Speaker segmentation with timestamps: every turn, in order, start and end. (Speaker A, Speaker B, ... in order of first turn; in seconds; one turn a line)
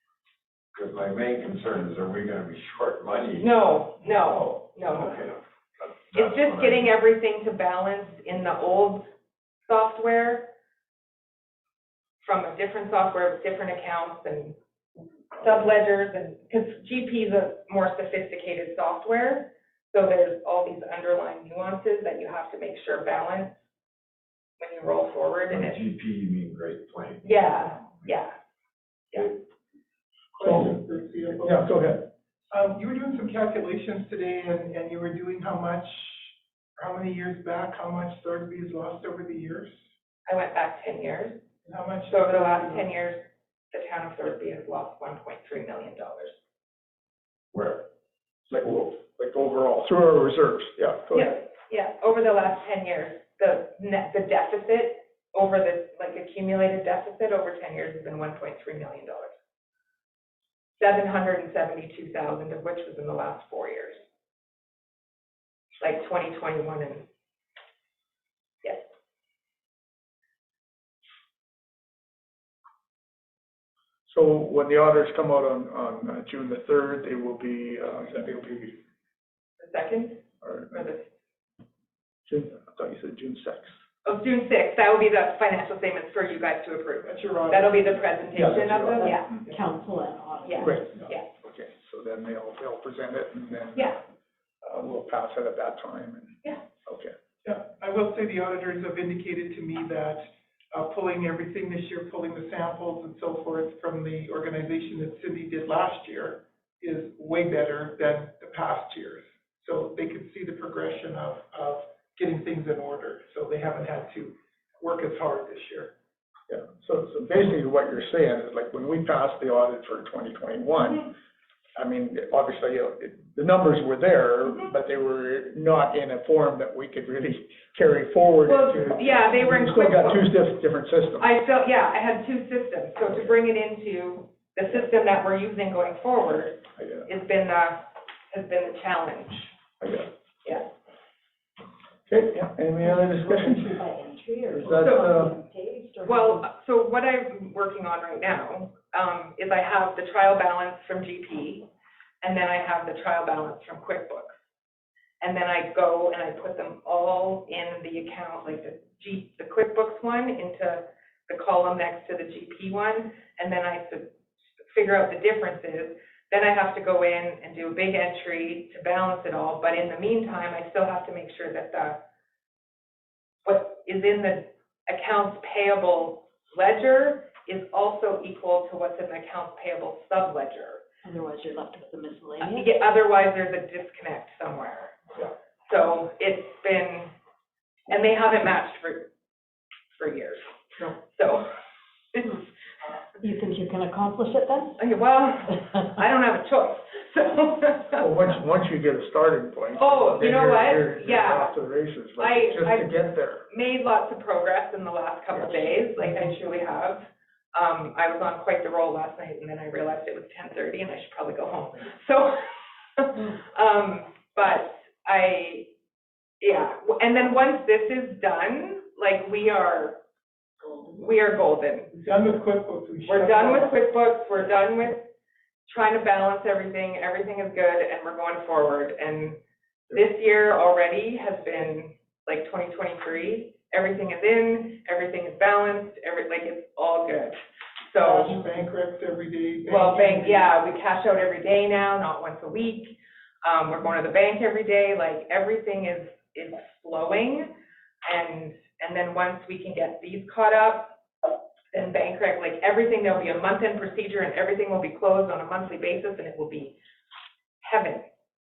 Speaker A: 0.7-3.5
Speaker B: 3.4-5.3
Speaker A: 4.9-6.9
Speaker B: 6.1-9.1
Speaker B: 9.6-10.5
Speaker B: 12.2-14.6
Speaker B: 15.3-23.6
Speaker B: 24.6-25.8
Speaker A: 25.5-27.7
Speaker B: 27.2-28.3
Speaker C: 30.3-31.7
Speaker D: 30.4-30.7
Speaker D: 31.4-32.0
Speaker C: 32.5-39.7
Speaker B: 40.2-41.4
Speaker C: 41.6-42.9
Speaker B: 42.1-46.4
Speaker A: 47.5-47.8
Speaker D: 48.5-51.3
Speaker B: 51.1-59.3
Speaker B: 60.8-64.1
Speaker B: 65.8-67.1
Speaker D: 74.1-78.8
Speaker B: 79.6-81.1
Speaker D: 80.4-80.7
Speaker D: 82.2-83.8
Speaker B: 84.0-89.3
Speaker C: 87.0-87.9
Speaker D: 88.3-89.4
Speaker E: 89.0-90.8
Speaker B: 90.4-91.3
Speaker D: 90.6-94.0
Speaker D: 94.6-97.1
Speaker C: 97.4-115.9
Speaker D: 116.5-121.1
Speaker D: 121.8-131.2
Speaker B: 128.4-130.3
Speaker B: 131.2-139.5
Speaker D: 136.8-137.1
Speaker D: 139.8-140.1
Speaker D: 142.1-143.8
Speaker E: 142.9-146.4
Speaker D: 144.5-145.3
Speaker B: 144.8-145.1
Speaker B: 146.0-151.7
Speaker B: 152.2-154.5
Speaker B: 155.2-172.0
Speaker B: 173.4-180.8
Speaker E: 181.0-182.7
Speaker B: 182.4-185.1
Speaker B: 185.7-187.1
Speaker B: 187.9-189.1
Speaker B: 189.9-190.4
Speaker B: 190.9-191.5
Speaker B: 192.1-192.4
Speaker E: 193.2-194.8
Speaker B: 194.8-198.1
Speaker D: 197.9-203.4
Speaker B: 199.8-201.5
Speaker B: 202.2-215.7
Speaker B: 216.4-220.0
Speaker B: 220.8-222.0
Speaker C: 221.9-223.7
Speaker B: 223.1-225.1
Speaker B: 225.7-229.4
Speaker B: 229.9-238.3
Speaker C: 238.0-240.5
Speaker B: 239.6-247.5
Speaker B: 248.0-251.0
Speaker B: 251.7-256.8
Speaker B: 257.6-258.1